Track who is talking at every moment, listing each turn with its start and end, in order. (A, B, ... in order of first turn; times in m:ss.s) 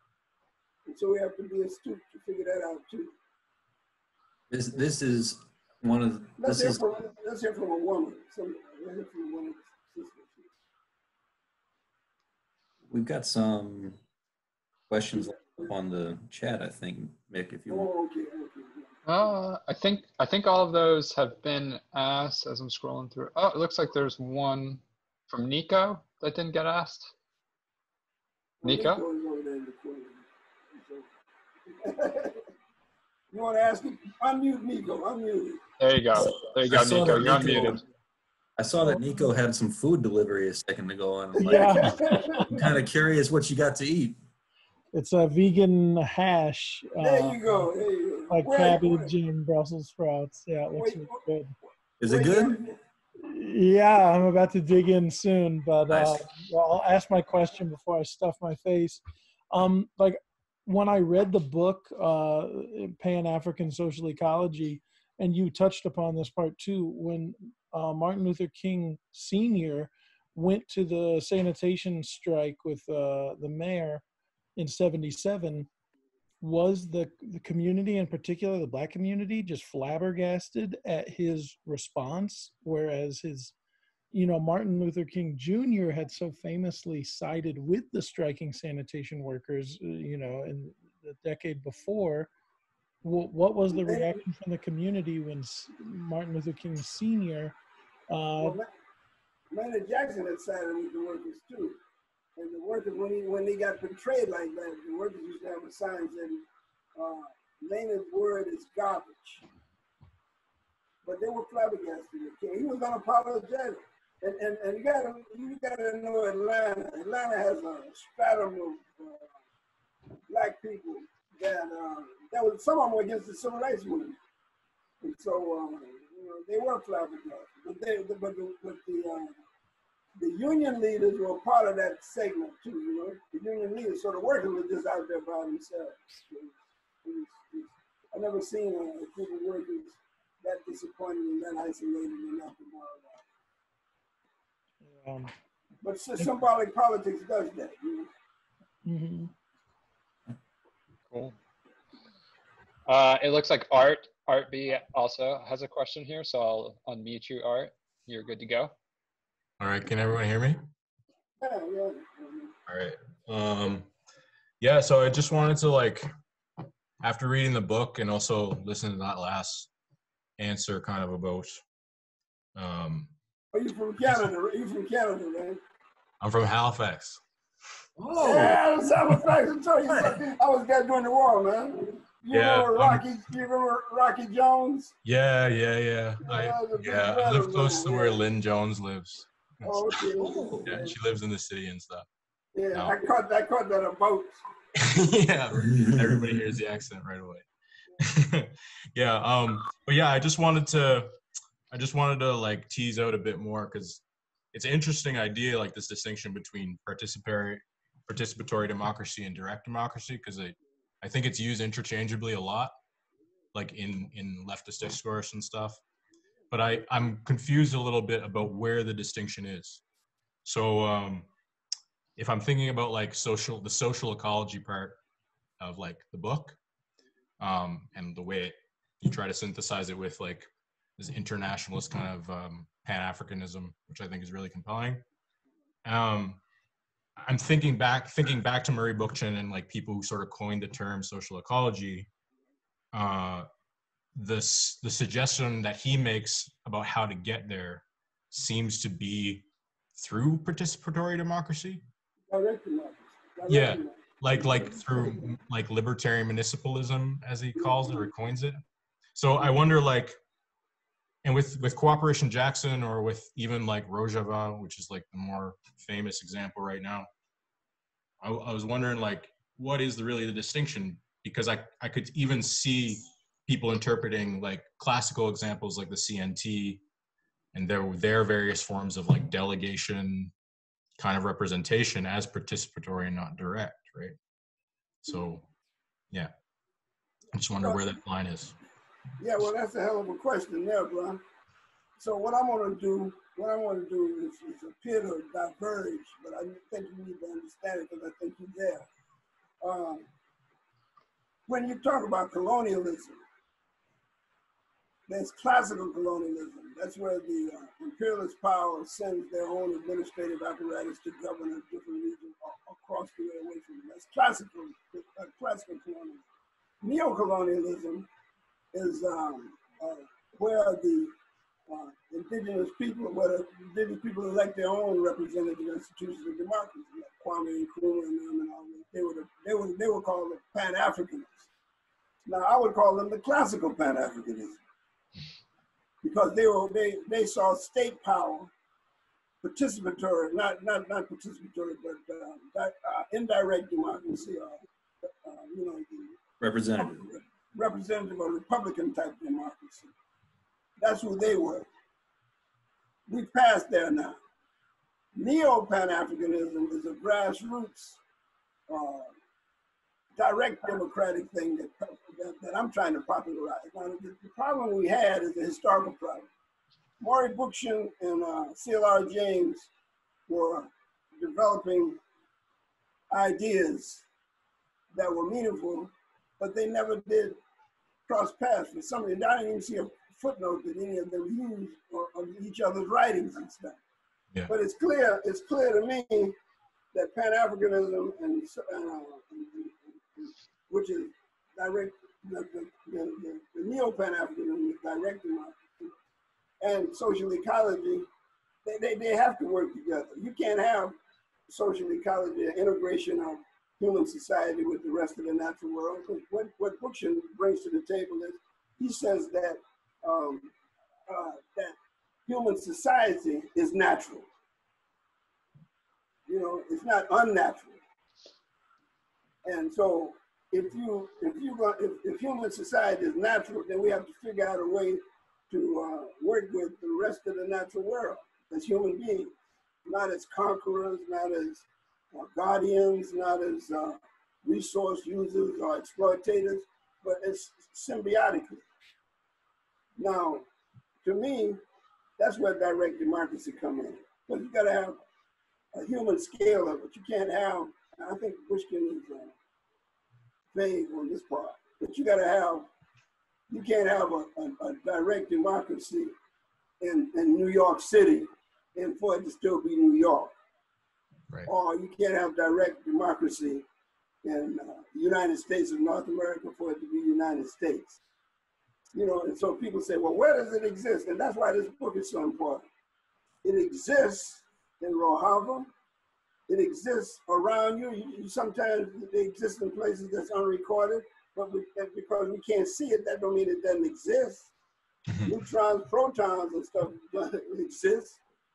0:00.8-0:03.1 A
0:04.5-0:06.8 B
0:06.4-0:10.5 A
0:12.9-0:14.0 B
0:14.9-0:17.9 B
0:15.2-0:15.7 A
0:17.7-0:19.0 A
0:19.1-0:27.1 C
0:28.6-0:30.2 A
0:28.6-0:29.0 C
0:30.8-0:31.0 A
0:31.8-0:32.4 A
0:33.3-0:35.6 A
0:35.8-0:37.8 C
0:36.6-0:37.8 B
0:38.6-0:44.2 B
0:41.3-0:42.7 A
0:41.4-0:42.7 D
0:44.9-0:47.4 D
0:47.0-0:49.1 A
0:48.3-0:51.5 D
0:50.7-0:51.3 A
0:52.0-0:52.6 B
0:52.0-0:52.8 A
0:53.3-1:14.0 D
0:55.9-0:56.2 B
1:14.6-1:15.7 D
1:16.4-1:23.5 D
1:24.1-1:32.3 D
1:33.0-1:37.6 D
1:33.7-1:34.2 A
1:38.1-1:38.6 D
1:38.4-1:38.7 A
1:39.5-1:41.8 A
1:42.4-1:46.4 A
1:47.0-1:49.4 A
1:51.0-1:59.3 A
2:00.3-2:04.2 A
2:05.0-2:09.4 A
2:10.2-2:23.2 A
2:24.8-2:25.3 D
2:25.8-2:28.1 A
2:28.8-2:29.3 D
2:31.1-2:31.4 C
2:32.9-2:38.7 C
2:39.6-2:40.7 E
2:41.4-2:42.6 A
2:42.7-2:43.9 E
2:44.6-2:46.1 E
2:47.0-2:49.7 E
2:50.4-2:51.6 E
2:52.6-2:53.1 E
2:53.5-2:55.6 A
2:56.2-2:57.2 E
2:58.0-2:58.6 B
2:58.2-3:04.9 A
3:02.3-3:03.1 E
3:05.0-3:10.0 E
3:06.2-3:08.2 A
3:09.6-3:10.8 A
3:10.2-3:10.9 B
3:10.6-3:12.1 E
3:12.6-3:14.4 A
3:14.8-3:17.5 E
3:15.7-3:16.4 B
3:18.0-3:21.1 E
3:21.7-3:32.7 E
3:33.5-3:35.8 E
3:36.5-3:39.8 E
3:40.4-3:41.3 E
3:42.2-3:45.0 E
3:45.6-3:46.6 E
3:47.4-3:55.0 E
3:55.8-3:56.4 E
3:57.2-4:02.1 E
4:02.9-4:03.5 E
4:04.1-4:09.4 E
4:10.0-4:11.8 E
4:12.3-4:15.3 A
4:13.5-4:18.6 E
4:17.6-4:18.1 A
4:19.1-4:20.2 E
4:21.2-4:27.1 E
4:28.2-4:36.8 E
4:37.5-4:40.3 E
4:41.0-4:44.2 E
4:45.0-4:45.5 E
4:47.3-4:48.6 E
4:47.6-4:47.9 A
4:49.2-4:51.2 A
4:52.0-4:58.9 A
4:59.6-5:00.1 A
5:01.5-5:03.2 A
5:05.1-5:16.2 A
5:16.8-5:18.1 A
5:18.7-5:21.1 A
5:21.7-5:31.5 A
5:32.2-5:34.6 A
5:36.0-5:38.5 A
5:39.4-5:46.1 A
5:46.4-5:47.0 B
5:46.8-5:49.9 A
5:50.8-5:51.7 A
5:53.1-5:54.2 A
5:55.2-5:58.0 A
5:58.7-5:59.1 A
6:00.2-6:06.3 A
6:07.0-6:09.7 A
6:10.3-6:12.0 A
6:13.1-6:14.0 A
6:14.9-6:17.4 A
6:18.1-6:23.8 A
6:24.5-6:26.4 A
6:26.9-6:35.9 A
6:36.6-6:38.1 A
6:38.6-6:40.9 A
6:41.5-6:50.5 A
6:51.1-6:51.8 A
6:52.3-6:54.3 A
6:56.3-6:57.8 A
6:59.4-7:09.3 A
7:09.8-7:18.6 A
7:20.0-7:20.4 A
7:21.0-7:21.6 A
7:22.2-7:25.0 A
7:25.7-7:29.3 A
7:30.5-7:32.7 A
7:33.5-7:36.1 A
7:36.8-7:40.3 A
7:41.5-7:43.6 A
7:44.2-7:48.0 A
7:48.9-7:52.6 A
7:53.4-7:55.7 A
7:56.5-8:04.5 A
8:05.2-8:08.2 A